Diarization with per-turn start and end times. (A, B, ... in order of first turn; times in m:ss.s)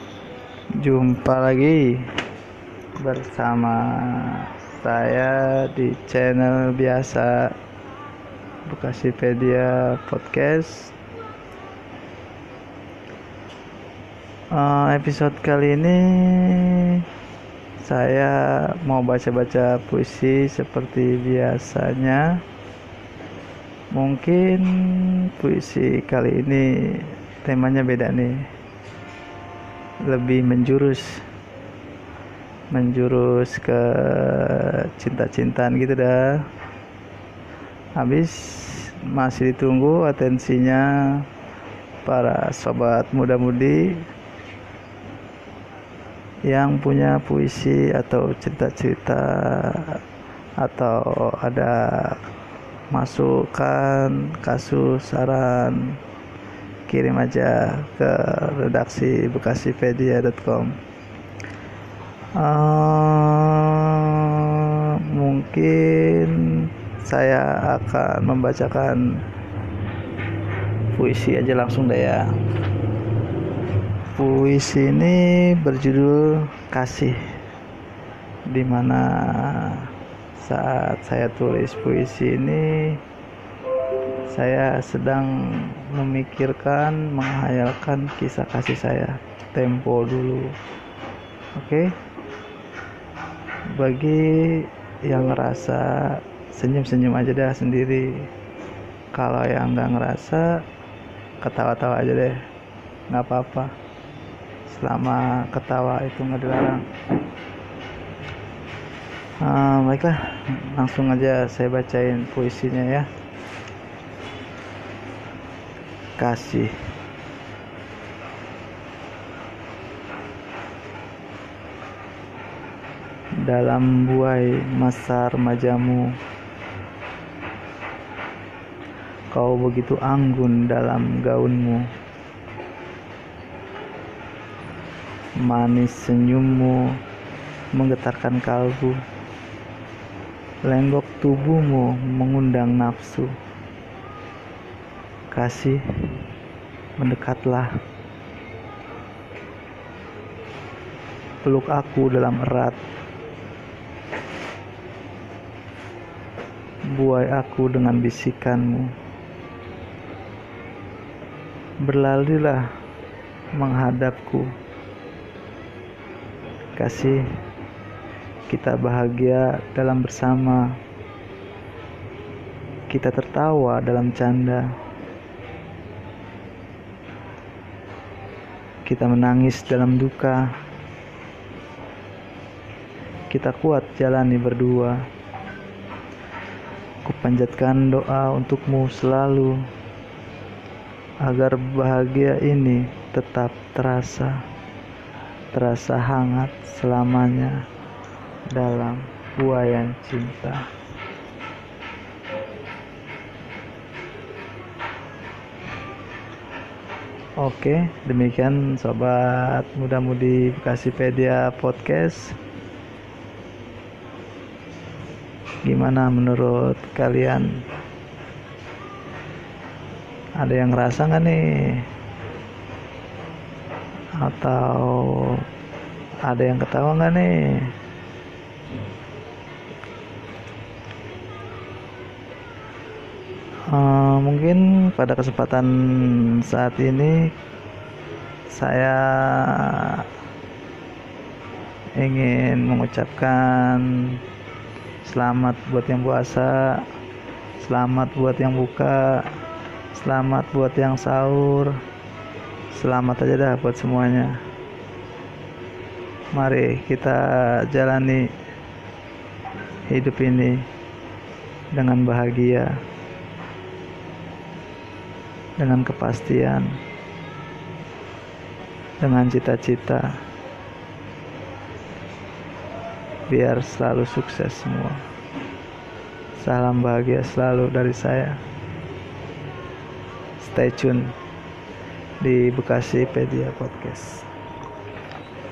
0:00.8-0:02.0 A
0:03.0-0:07.5 A
0:08.7-0:10.9 A
0:14.6-0:17.0 A
0:17.8-0:22.2 A
0:23.9-0:28.4 A
0:30.0-0:31.2 A
0:32.7-0:36.3 A
0:38.0-0:41.2 A
0:42.0-0:44.0 A
0:46.5-0:50.0 A
0:50.6-0:52.2 A
0:52.9-0:55.9 A
0:56.9-1:00.7 A
1:02.4-1:06.5 A
1:07.0-1:09.0 A
1:10.9-1:12.3 A
1:14.2-1:17.2 A
1:18.5-1:23.0 A
1:24.3-1:25.3 A
1:25.9-1:30.5 A
1:31.6-1:31.9 A
1:33.8-1:38.3 A
1:39.2-1:40.5 A
1:41.4-1:42.4 A
1:43.1-1:43.7 A
1:44.7-1:46.9 A
1:49.4-1:53.1 A
1:56.2-1:56.7 A
2:03.5-2:06.1 A
2:09.3-2:11.8 A
2:15.4-2:16.9 A
2:17.8-2:19.0 A
2:20.7-2:23.3 A
2:25.3-2:25.8 A
2:27.0-2:27.7 A
2:31.4-2:32.8 A
2:36.9-2:38.9 A
2:41.8-2:42.6 A
2:43.6-2:44.5 A
2:46.8-2:47.2 A
2:48.5-2:50.8 A
2:52.9-2:54.7 A
2:58.9-3:00.5 A
3:03.3-3:05.0 A
3:07.0-3:09.6 A
3:11.2-3:14.3 A
3:15.5-3:17.6 A
3:18.5-3:20.6 A
3:27.4-3:32.4 A
3:35.6-3:37.5 A
3:40.4-3:41.8 A
3:44.2-3:45.4 A
3:46.3-3:47.7 A
3:53.7-3:57.3 A
3:58.5-4:00.0 A
4:02.0-4:04.2 A
4:05.0-4:06.8 A
4:07.6-4:09.3 A
4:10.0-4:11.8 A
4:12.7-4:14.4 A
4:16.3-4:18.3 A
4:19.9-4:20.6 A
4:21.8-4:22.7 A
4:25.6-4:26.7 A
4:29.0-4:30.1 A
4:33.3-4:35.0 A
4:36.4-4:38.4 A
4:40.4-4:41.1 A
4:42.2-4:44.3 A